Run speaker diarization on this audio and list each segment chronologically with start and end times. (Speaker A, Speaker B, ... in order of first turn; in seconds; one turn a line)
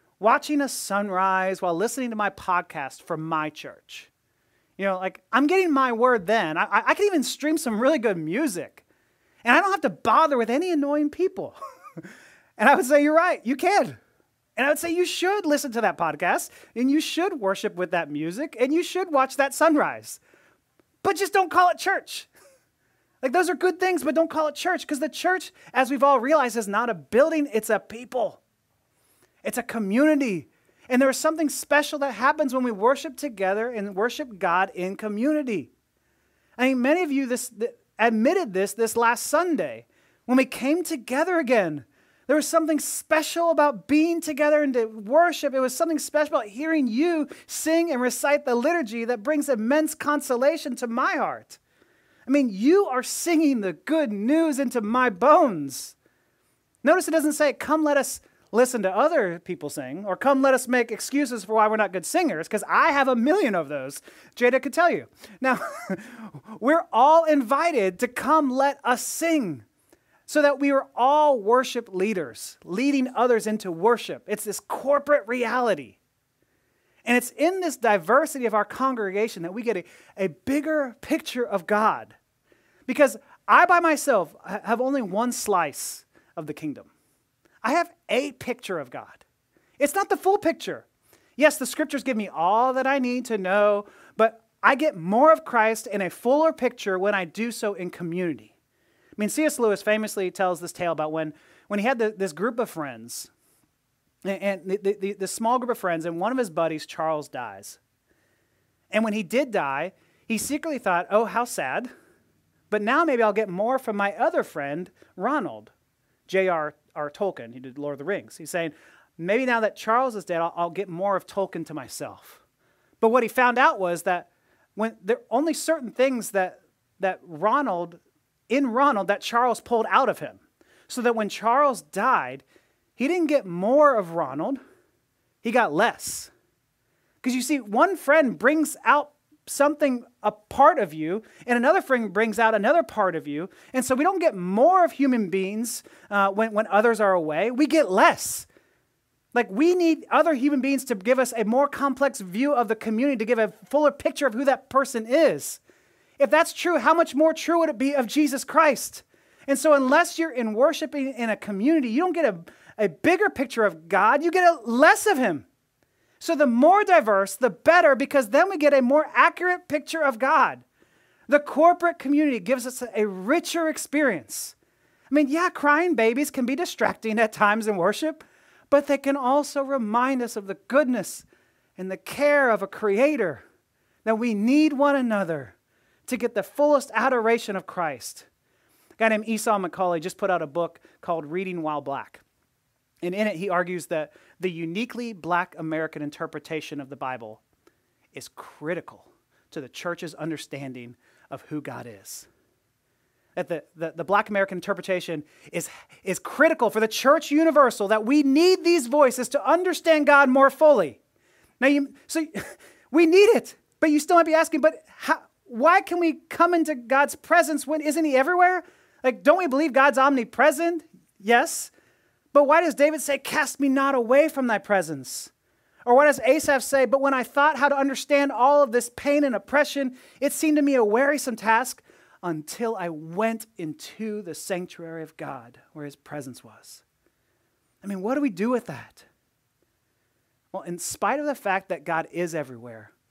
Speaker A: 0.2-4.1
Speaker A: 4.8-8.8
Speaker A: 9.4-12.1
Speaker A: 12.6-14.0
Speaker A: 14.6-20.2
Speaker A: 21.0-22.3
Speaker A: 23.2-28.4
Speaker A: 29.4-35.7
Speaker A: 36.6-51.6
Speaker A: 52.3-56.0
Speaker A: 56.8-69.7
Speaker A: 70.3-76.0
Speaker A: 77.0-82.2
Speaker A: 82.9-86.9
Speaker A: 87.6-89.2
Speaker A: 89.8-90.9
Speaker A: 91.4-98.5
Speaker A: 99.2-103.3
Speaker A: 104.2-107.8
Speaker A: 108.9-111.9
Speaker A: 112.7-115.7
Speaker A: 116.3-122.4
Speaker A: 123.0-132.4
Speaker A: 133.0-134.6
Speaker A: 135.4-136.3
Speaker A: 137.2-148.5
Speaker A: 149.3-155.6
Speaker A: 156.2-165.5
Speaker A: 166.2-170.6
Speaker A: 171.3-174.6
Speaker A: 175.1-183.4
Speaker A: 184.1-185.6
Speaker A: 186.1-188.3
Speaker A: 189.0-192.2
Speaker A: 193.0-197.4
Speaker A: 198.1-202.3
Speaker A: 203.4-211.0
Speaker A: 211.6-221.7
Speaker A: 222.3-225.3
Speaker A: 225.8-236.8
Speaker A: 237.8-239.1
Speaker A: 240.5-242.9